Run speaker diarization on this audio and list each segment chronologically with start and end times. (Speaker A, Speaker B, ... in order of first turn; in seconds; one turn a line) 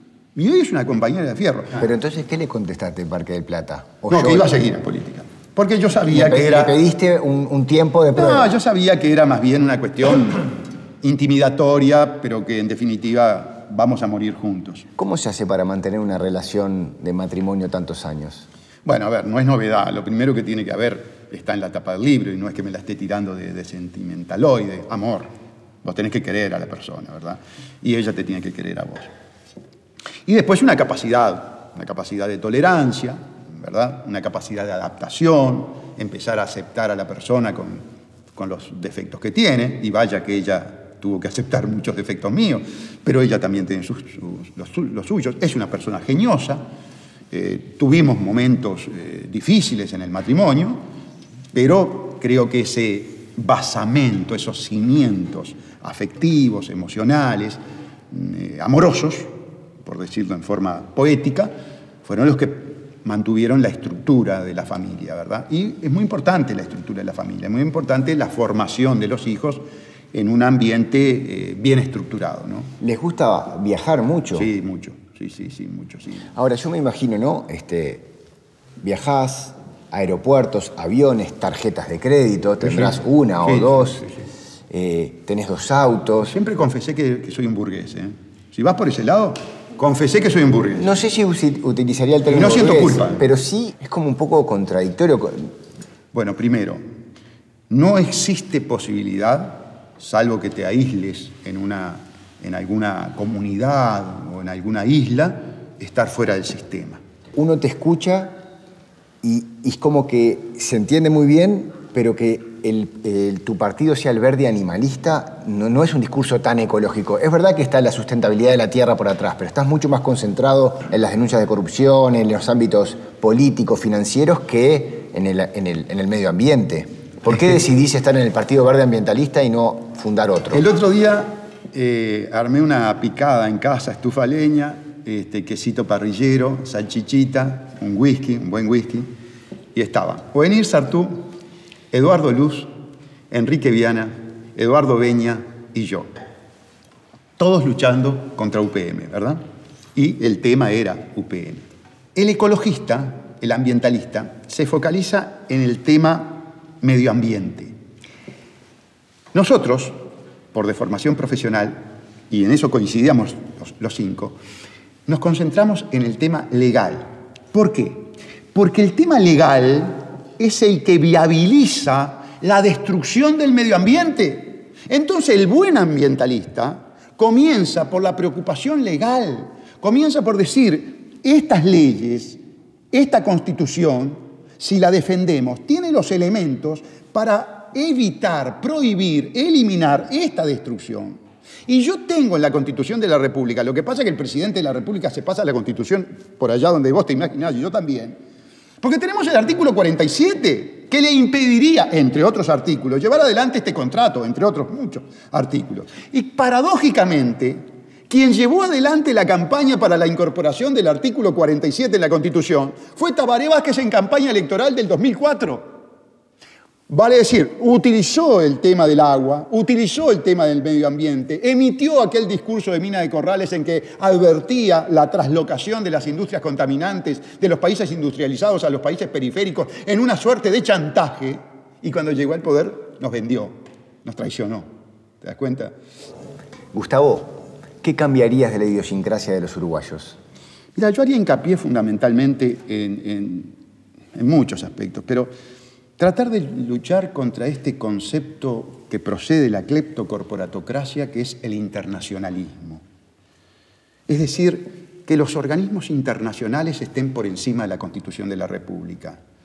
Speaker A: 0.3-1.9
Speaker B: 1.8-4.5
Speaker A: 4.1-6.8
Speaker B: 6.1-8.6
Speaker A: 8.2-14.9
Speaker B: 15.0-18.5
Speaker A: 18.9-25.3
Speaker A: 25.8-29.1
Speaker A: 30.3-37.8
Speaker A: 38.4-46.6
Speaker A: 47.3-50.8
Speaker A: 51.5-61.5
Speaker A: 62.0-72.7
Speaker B: 72.8-74.5
Speaker A: 74.3-76.3
Speaker B: 76.3-78.1
Speaker B: 78.8-84.1
Speaker A: 82.7-84.1
Speaker B: 84.7-86.4
Speaker A: 86.2-90.9
Speaker B: 90.8-95.5
Speaker A: 92.3-93.3
Speaker A: 96.1-96.8
Speaker A: 97.7-107.0
Speaker B: 107.4-108.4
Speaker B: 109.2-130.6
Speaker A: 130.5-139.1
Speaker A: 139.7-141.3
Speaker A: 141.9-142.7
Speaker A: 143.3-146.1
Speaker A: 147.4-149.4
Speaker A: 149.9-157.7
Speaker A: 159.3-160.0
Speaker A: 160.5-164.4
Speaker A: 165.1-182.4
Speaker A: 182.9-198.2
Speaker A: 198.8-215.8
Speaker A: 216.9-234.7
Speaker A: 235.2-235.8
Speaker B: 236.7-240.2
Speaker A: 240.8-243.6
Speaker A: 244.2-245.3
Speaker A: 246.0-252.8
Speaker A: 254.1-259.2